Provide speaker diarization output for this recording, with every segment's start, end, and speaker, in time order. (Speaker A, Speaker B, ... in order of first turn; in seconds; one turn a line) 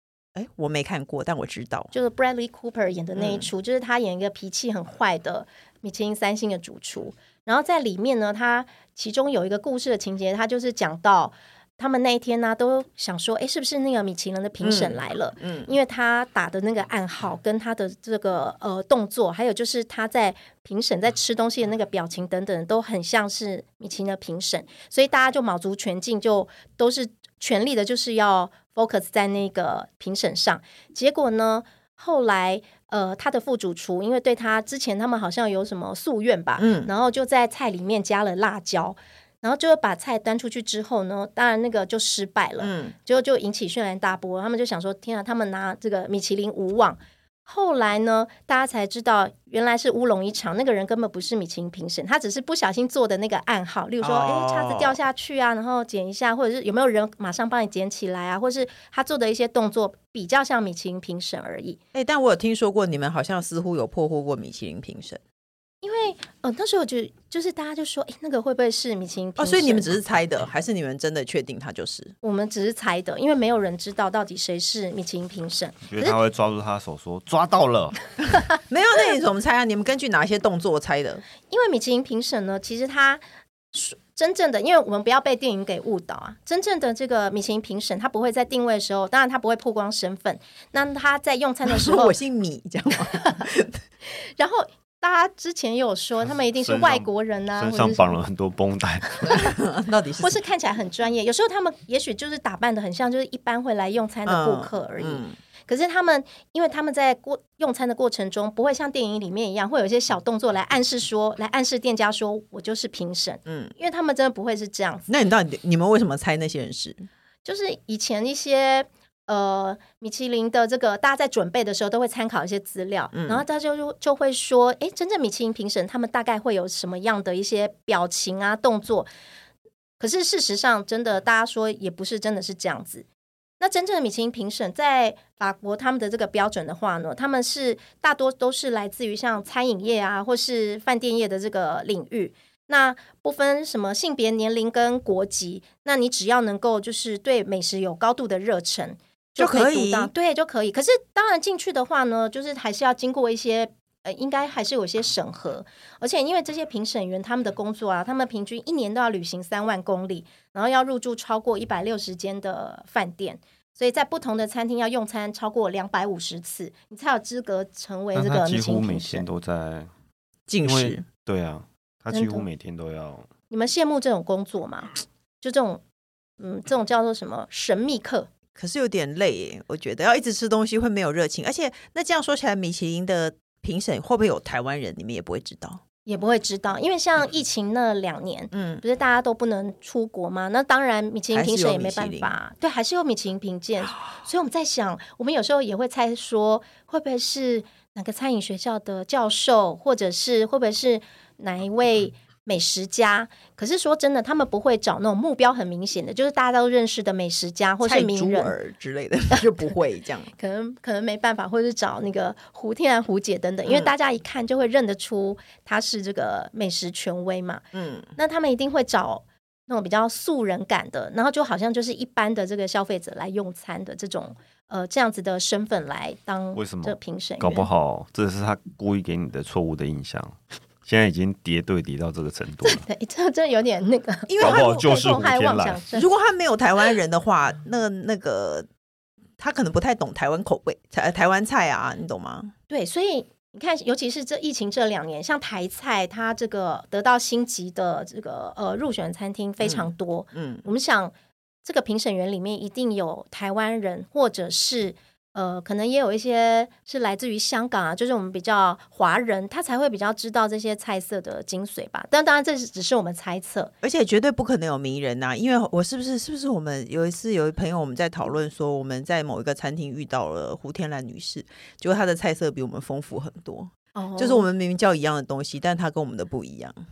Speaker A: 0.3-1.9
Speaker B: 1.9-61.8
Speaker A: 3.1-3.5
Speaker A: 14.6-15.7
Speaker A: 36.6-36.9
Speaker A: 42.6-42.9
Speaker A: 54.0-55.0
Speaker A: 61.9-65.2
Speaker B: 65.8-69.9
Speaker A: 69.4-72.1
Speaker B: 72.2-76.2
Speaker C: 75.8-77.9
Speaker A: 78.7-81.2
Speaker B: 81.5-83.2
Speaker B: 83.7-92.1
Speaker A: 91.7-93.8
Speaker B: 93.1-93.4
Speaker B: 94.2-98.2
Speaker C: 96.5-99.5
Speaker A: 99.3-100.4
Speaker B: 100.2-115.1
Speaker A: 104.2-105.3
Speaker A: 113.5-113.7
Speaker A: 115.1-117.1
Speaker B: 117.4-129.1
Speaker A: 123.1-123.4
Speaker B: 130.0-133.0
Speaker B: 133.6-169.2
Speaker A: 149.4-150.1
Speaker C: 168.1-169.9
Speaker A: 170.5-171.0
Speaker C: 170.6-173.3
Speaker B: 172.1-172.4
Speaker B: 173.5-175.8
Speaker B: 176.4-178.3
Speaker A: 178.6-185.8
Speaker B: 186.1-208.5
Speaker A: 188.5-188.8
Speaker A: 191.3-192.3
Speaker A: 207.8-210.3
Speaker B: 210.4-217.6
Speaker A: 213.7-213.9
Speaker A: 217.7-218.1
Speaker B: 218.2-227.7
Speaker C: 226.5-232.8
Speaker B: 232.6-236.1
Speaker A: 234.3-235.2
Speaker C: 234.4-235.8
Speaker A: 235.9-238.7
Speaker A: 239.4-242.5
Speaker B: 242.7-251.1
Speaker A: 249.6-250.6
Speaker B: 251.6-263.7
Speaker A: 263.8-276.8
Speaker B: 273.9-274.4